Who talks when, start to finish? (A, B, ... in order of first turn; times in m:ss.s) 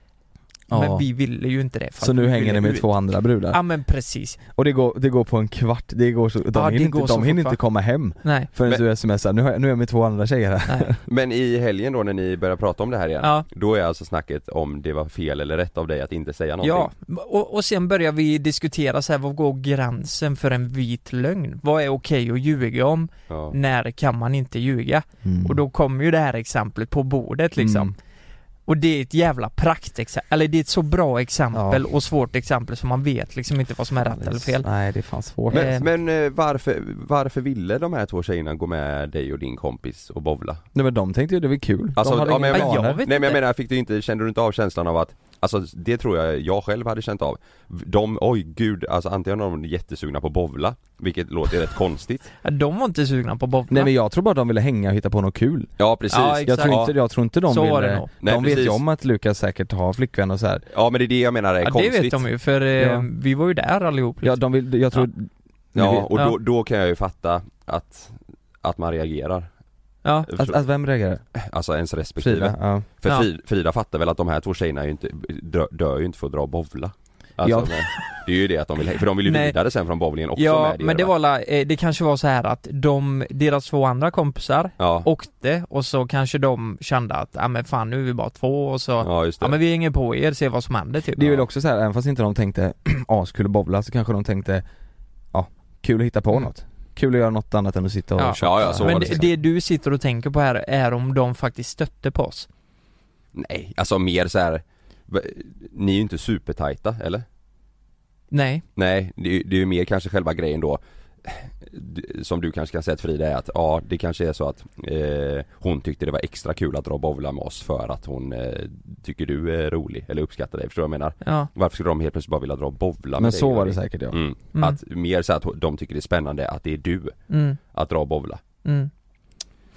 0:00.7-0:01.0 A
0:00.7-0:02.9 B
0:02.0-0:03.6 A
0:03.5-0:04.4 B
0:04.5-0:11.0 A
0:06.5-0:07.6 B
0:08.2-0:08.5 B
0:11.0-0:16.9 C
0:16.6-0:27.9 B
0:23.3-0:23.5 C
0:25.2-0:25.6 A
0:27.6-0:27.9 A
0:28.7-0:34.7 B
0:31.5-0:31.8 A
0:34.0-0:35.8 A
0:35.5-0:35.8 B
0:35.5-0:40.6 C
0:40.7-0:43.0 A
0:42.0-0:52.3 C
0:42.2-0:43.4 B
0:52.4-0:53.9 B
0:53.7-0:55.7 A
0:55.8-0:56.9 C
0:56.1-0:56.8 B
0:56.4-1:00.6 A
0:57.5-0:58.1 B
0:58.2-0:58.8 C
1:00.7-1:02.2 C
1:01.6-1:04.4 B
1:02.8-1:03.1 A
1:04.2-1:06.1 A
1:05.7-1:09.5 C
1:10.2-1:10.6 C
1:10.4-1:11.2 A
1:11.3-1:21.1 C
1:12.2-1:12.8 A
1:17.4-1:17.8 A
1:19.2-1:19.6 B
1:20.4-1:31.4 B
1:24.8-1:25.1 C
1:29.0-1:29.6 C
1:31.2-1:34.6 A
1:35.3-1:39.2 A
1:38.2-1:42.5 B
1:38.4-1:39.3 C
1:43.3-1:47.2 C
1:48.3-1:48.6 B
1:48.8-2:07.2 C
2:01.2-2:01.5 B
2:03.2-2:04.2 A
2:07.3-2:07.6 B
2:07.7-2:08.4 C
2:08.6-2:08.9 B